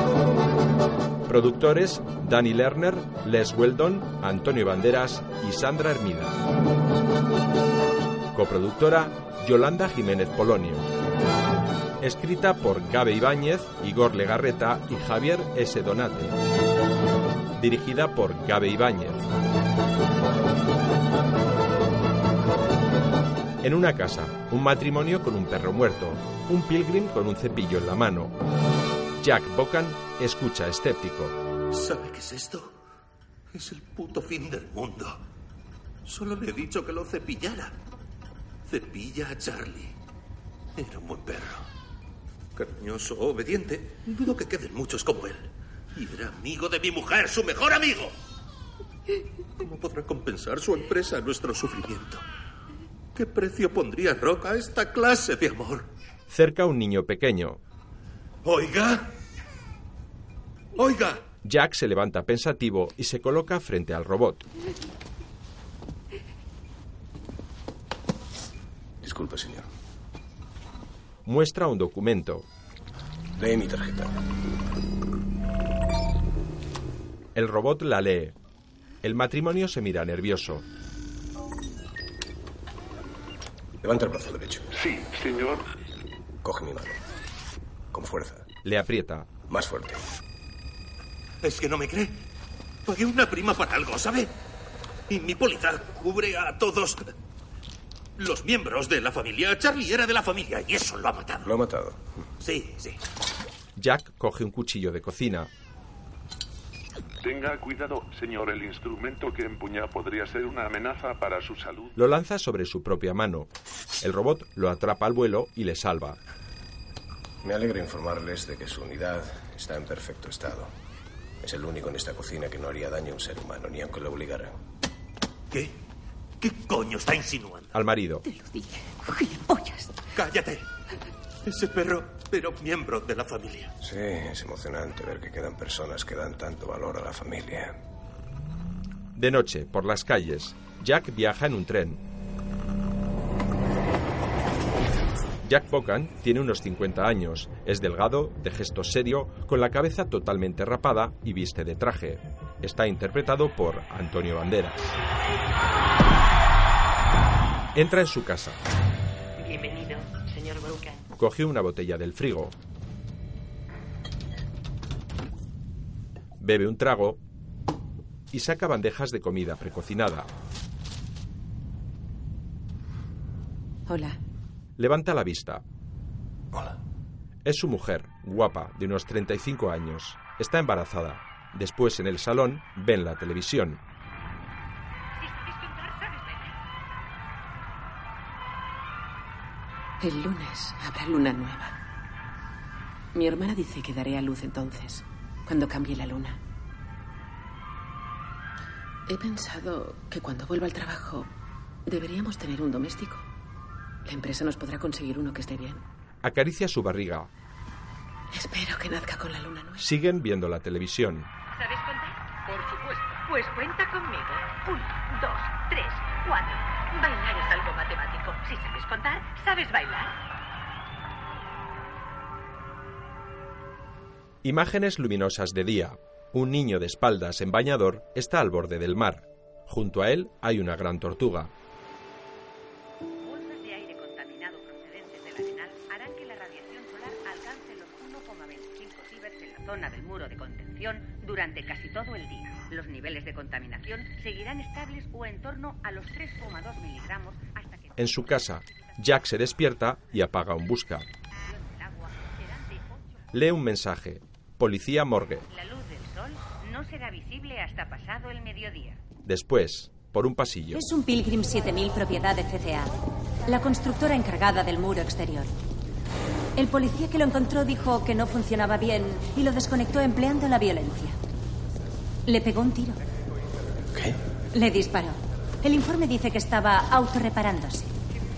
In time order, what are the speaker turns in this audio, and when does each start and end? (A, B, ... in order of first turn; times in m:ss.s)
0:01.3-0:06.4 A
0:08.3-0:10.9 A
0:12.0-0:16.4 A
0:17.6-0:19.2 A
0:23.6-0:28.3 A
0:29.2-0:31.4 A
0:31.7-0:32.7 B
0:33.5-0:35.2 B
0:36.0-0:37.7 B
0:38.7-0:39.9 B
0:40.8-0:41.6 B
0:42.6-0:48.1 B
0:49.6-0:52.2 B
0:53.1-0:55.9 B
0:56.3-0:57.6 A
0:58.4-0:59.1 B
1:00.7-1:01.2 B
1:01.4-1:04.4 A
1:09.0-1:09.6 C
1:11.2-1:12.4 A
1:13.4-1:14.1 C
1:17.3-1:18.4 A
1:19.0-1:20.6 A
1:23.8-1:24.6 C
1:24.7-1:25.6 D
1:26.4-1:27.0 C
1:27.9-1:28.4 C
1:28.6-1:29.3 A
1:29.5-1:30.0 C
1:31.4-1:32.2 B
1:32.8-1:34.3 B
1:35.1-1:37.0 B
1:38.2-1:41.5 B
1:41.4-1:42.0 C
1:42.4-1:43.0 B
1:43.8-1:45.5 A
1:47.2-1:51.9 D
1:52.0-1:56.2 A
1:57.4-2:00.7 C
2:01.4-2:04.6 C
2:06.4-2:07.7 B
2:07.7-2:08.2 A
2:10.1-2:10.6 B
2:11.4-2:13.7 B
2:13.8-2:17.7 C
2:19.2-2:22.0 A
2:25.4-2:34.8 A
2:37.7-2:38.6 A
2:41.1-2:42.6 A
2:46.4-2:47.2 A
2:48.3-2:50.3 A
2:53.9-2:54.2 E
2:54.8-2:55.6 A
2:57.4-3:03.8 A
3:05.2-3:06.5 F
3:10.0-3:11.7 E
3:13.1-3:16.4 E
3:19.1-3:21.3 E
3:21.9-3:23.2 E
3:24.0-3:25.8 E
3:26.2-3:27.3 A
3:28.3-3:29.8 E
3:29.8-3:31.3 A
3:31.5-3:40.1 F
3:44.4-3:51.5 A
3:53.2-4:08.4 F
4:08.0-4:11.0 A
4:11.4-4:13.0 F
4:13.3-4:15.4 A
4:15.5-4:19.0 F
4:19.2-4:20.8 A
4:20.7-4:22.9 G
4:23.5-4:25.5 G
4:26.6-4:31.2 G
4:32.3-4:33.0 G
4:34.5-4:37.9 G